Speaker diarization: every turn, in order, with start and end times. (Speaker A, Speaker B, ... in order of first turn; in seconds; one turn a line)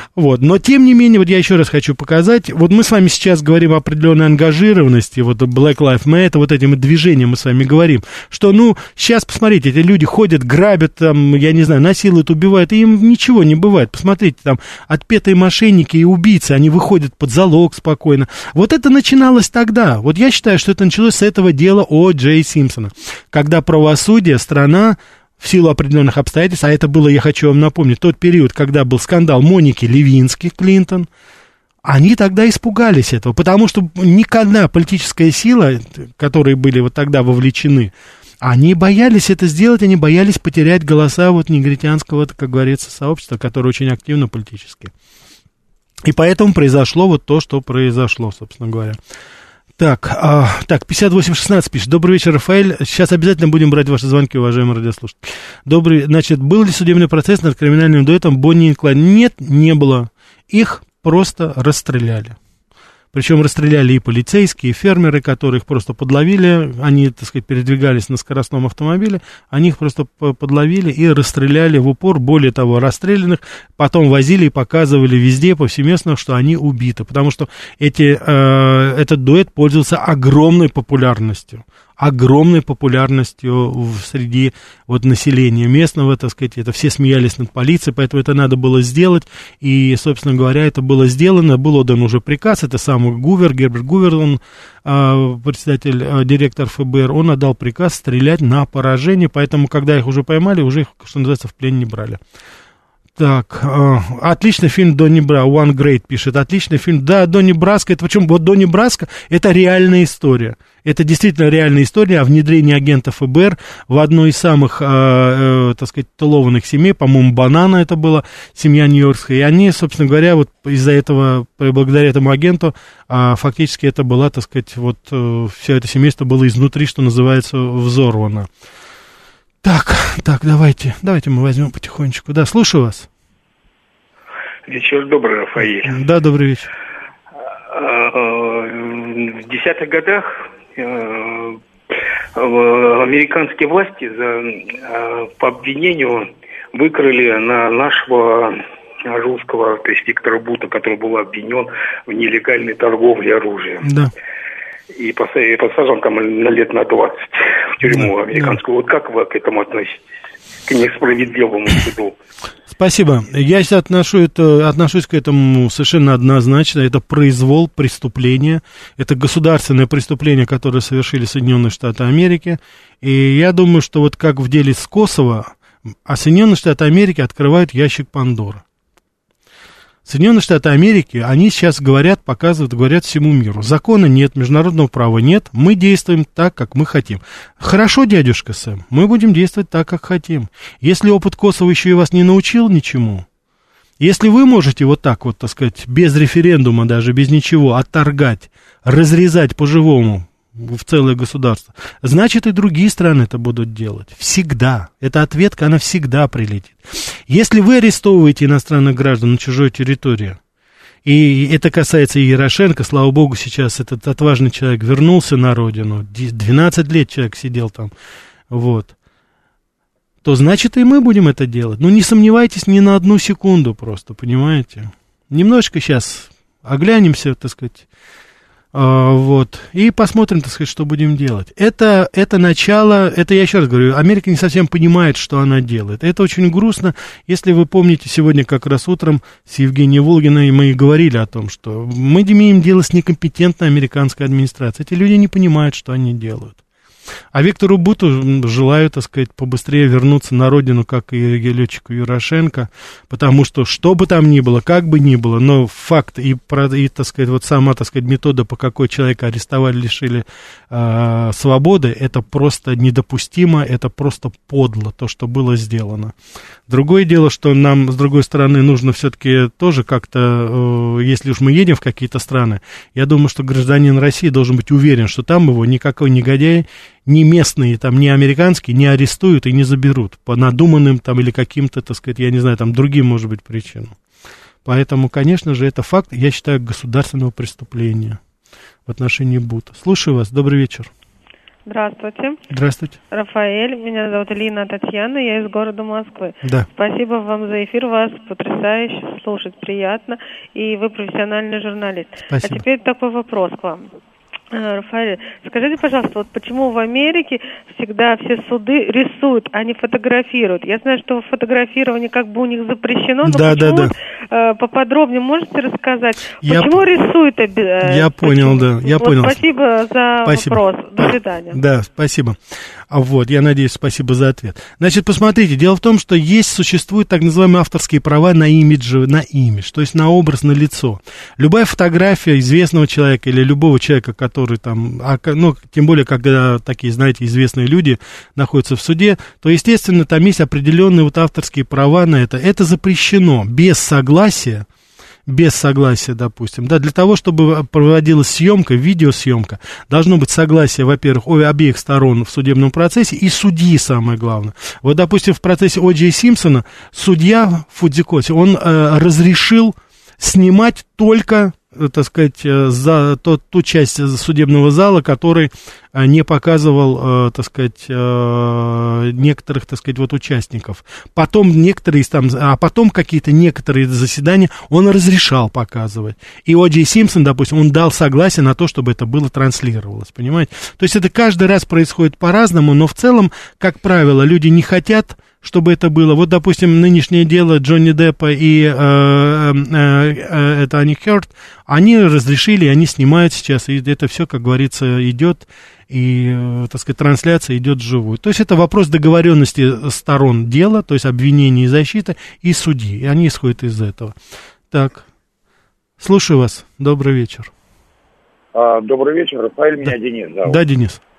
Speaker A: 0.1-31.1
Speaker A: 31.8-44.9
Speaker A: 46.0-49.0
Speaker A: 49.8-62.4
Speaker A: 63.1-102.2
Speaker A: 103.2-128.5
Speaker A: 129.6-133.1
Speaker B: 134.7-136.0
Speaker A: 135.6-136.7
Speaker B: 137.7-141.6
Speaker B: 142.3-153.9
Speaker A: 153.8-154.1
Speaker B: 154.9-160.1
Speaker A: 157.8-158.6
Speaker B: 160.7-162.2
Speaker A: 162.7-175.6
Speaker A: 176.1-178.6
Speaker A: 180.1-193.2
Speaker A: 194.0-210.4
Speaker A: 211.1-217.9
Speaker A: 218.5-218.9
Speaker A: 220.2-227.8
Speaker A: 228.7-246.6
Speaker A: 247.3-266.1
Speaker A: 266.7-284.0
Speaker A: 284.6-288.2
Speaker A: 288.9-290.9
Speaker C: 291.7-292.4
Speaker A: 292.5-293.0
Speaker C: 293.1-303.9
Speaker A: 296.4-296.7
Speaker A: 302.3-302.6
Speaker C: 304.5-321.6
Speaker A: 313.2-313.9
Speaker A: 316.4-316.9
Speaker A: 317.8-319.4
Speaker A: 320.2-322.4
Speaker A: 322.9-344.7
Speaker A: 345.3-404.2
Speaker A: 404.7-405.1
Speaker A: 406.0-407.5
Speaker D: 408.5-410.6
Speaker A: 410.4-411.0